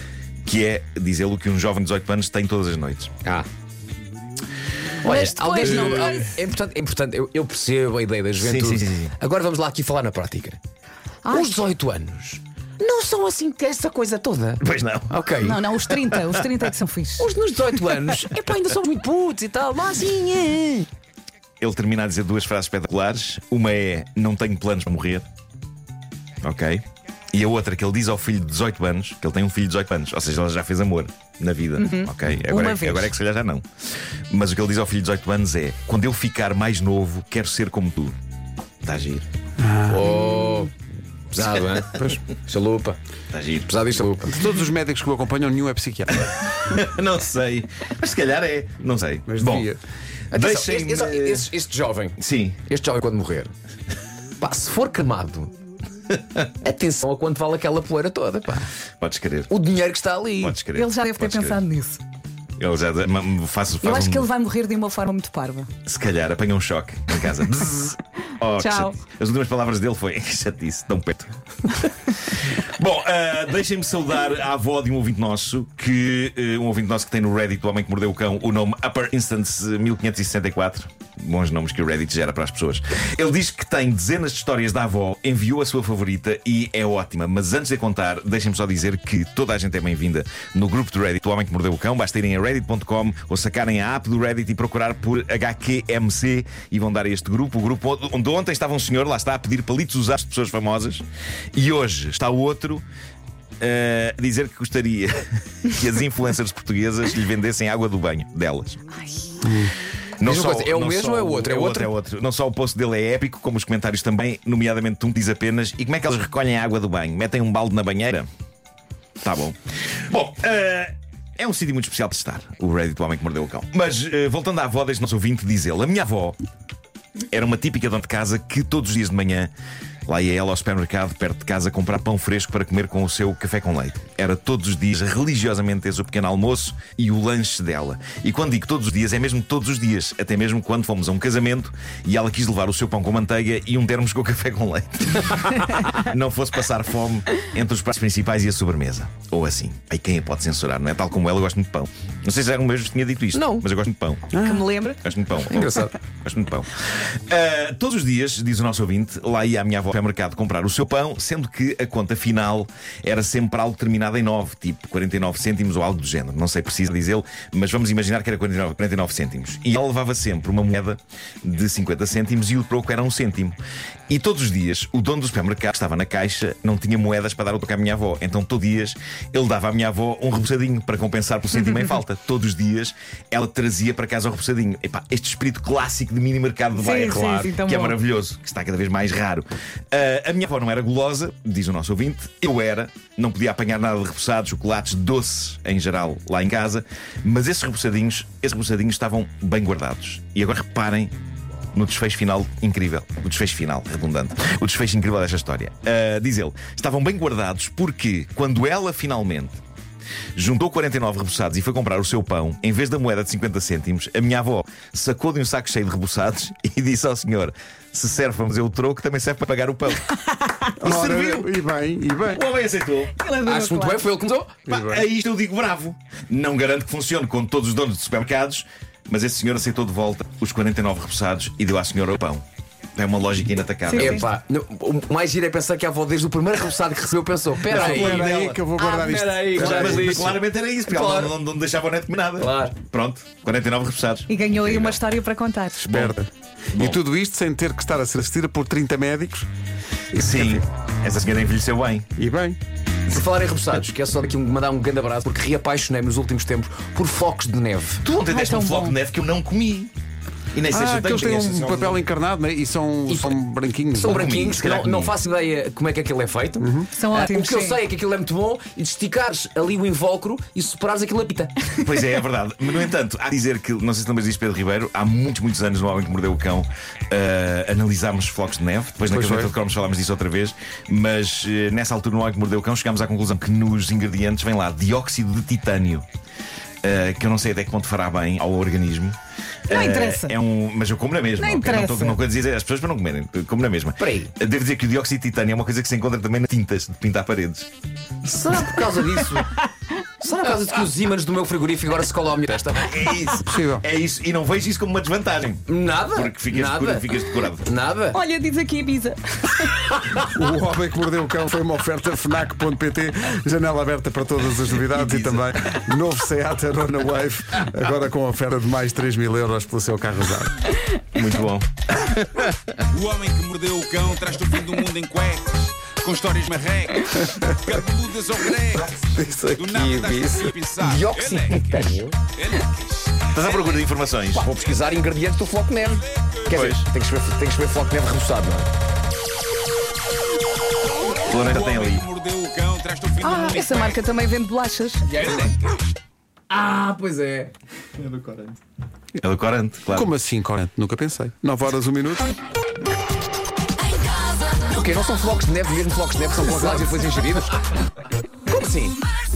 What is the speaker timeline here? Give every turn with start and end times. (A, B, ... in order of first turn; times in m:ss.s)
0:00.4-0:03.1 A
0:05.0-0:10.6 B
0:05.0-0:06.4 C
0:08.4-0:09.1 A
0:11.2-0:11.6 C
0:11.3-0:15.6 B
0:14.6-0:15.4 A
0:15.4-0:17.3 C
0:16.0-0:16.4 A
0:17.2-0:20.9 B
0:21.6-0:25.2 A
0:26.4-0:33.6 A
0:31.8-0:33.1 C
0:34.3-0:38.2 A
0:38.8-0:39.2 A
0:39.6-0:40.0 D
0:39.8-0:40.7 B
0:41.3-0:43.0 B
0:41.3-0:41.7 A
0:41.9-0:42.2 D
0:43.3-0:43.7 A
0:43.6-0:44.4 B
0:44.2-0:46.5 D
0:46.6-0:49.7 A
0:49.2-0:49.8 D
0:50.3-0:51.5 A
0:50.3-0:53.5 B
0:52.2-0:52.6 A
0:54.4-0:55.5 B
0:56.6-0:58.7 B
0:59.0-0:59.5 A
0:59.5-1:00.6 B
1:00.4-1:01.6 A
1:00.7-1:02.0 C
1:02.6-1:04.3 A
1:03.8-1:05.7 C
1:05.8-1:41.0 A
1:08.5-1:09.0 C
1:41.5-1:42.8 A
1:43.6-1:48.8 A
1:49.0-1:49.4 C
1:49.4-1:49.7 D
1:50.2-1:58.3 A
1:50.2-1:51.9 B
1:59.2-2:06.4 A
2:07.3-2:09.5 A
2:10.1-2:34.4 A
2:33.3-2:33.6 B
2:34.3-2:34.6 D
2:34.4-2:35.0 C
2:35.0-2:53.6 A
2:35.5-2:35.9 B
2:54.1-3:21.1 A
3:06.8-3:08.0 C
3:21.7-3:29.6 A
3:30.4-3:40.1 A
3:40.8-3:42.4 D
3:40.8-3:41.5 A
3:42.3-3:43.1 A
3:43.2-3:44.2 C
3:43.3-3:44.6 B
3:44.6-3:45.0 D
3:44.7-3:52.4 A
3:53.0-3:54.2 A
3:53.9-3:54.3 C
3:53.9-4:01.3 B
3:57.6-4:00.3 D
3:57.7-3:58.6 A
3:59.5-4:05.0 A
4:02.4-4:02.8 B
4:04.3-4:05.9 C
4:05.8-4:09.5 D
4:05.9-4:06.1 A
4:06.7-4:07.0 A
4:10.1-4:10.6 D
4:10.1-4:12.1 A
4:12.2-4:12.6 D
4:13.1-4:18.0 B
4:18.0-4:19.9 A
4:18.2-4:19.0 C
4:20.5-4:22.1 A
4:20.7-4:24.4 D
4:23.1-4:23.4 B
4:23.9-4:31.7 B
4:24.0-4:25.2 A
4:26.6-4:26.9 D
4:26.9-4:27.8 C
4:31.8-4:46.0 A
4:39.0-4:39.5 D
4:46.8-4:49.2 A
4:49.7-4:57.7 A
4:49.7-4:50.3 C
4:51.4-4:52.2 C
4:54.0-4:54.3 B
4:58.2-4:59.6 B
5:00.2-5:03.1 B
5:02.8-5:07.7 A
5:03.4-5:03.8 D
5:05.7-5:07.1 B
5:07.6-5:08.2 B
5:08.1-5:10.0 C
5:10.1-5:20.7 D
5:21.1-5:22.8 A
5:22.9-5:33.9 E
5:29.1-5:29.5 D
5:29.2-5:32.2 B
5:33.3-5:34.4 A
5:34.3-5:38.7 B
5:34.5-5:35.1 E
5:35.8-5:36.8 E
5:36.5-5:36.8 A
5:41.2-5:42.1 A
5:41.3-5:44.0 E
5:43.2-5:45.1 C
5:45.1-5:45.5 B
5:45.2-5:45.7 E
5:46.5-5:47.5 B
5:48.1-5:48.4 B
5:49.2-5:50.1 A
5:49.9-5:52.3 D
5:54.6-5:57.6 B
5:58.5-5:59.0 B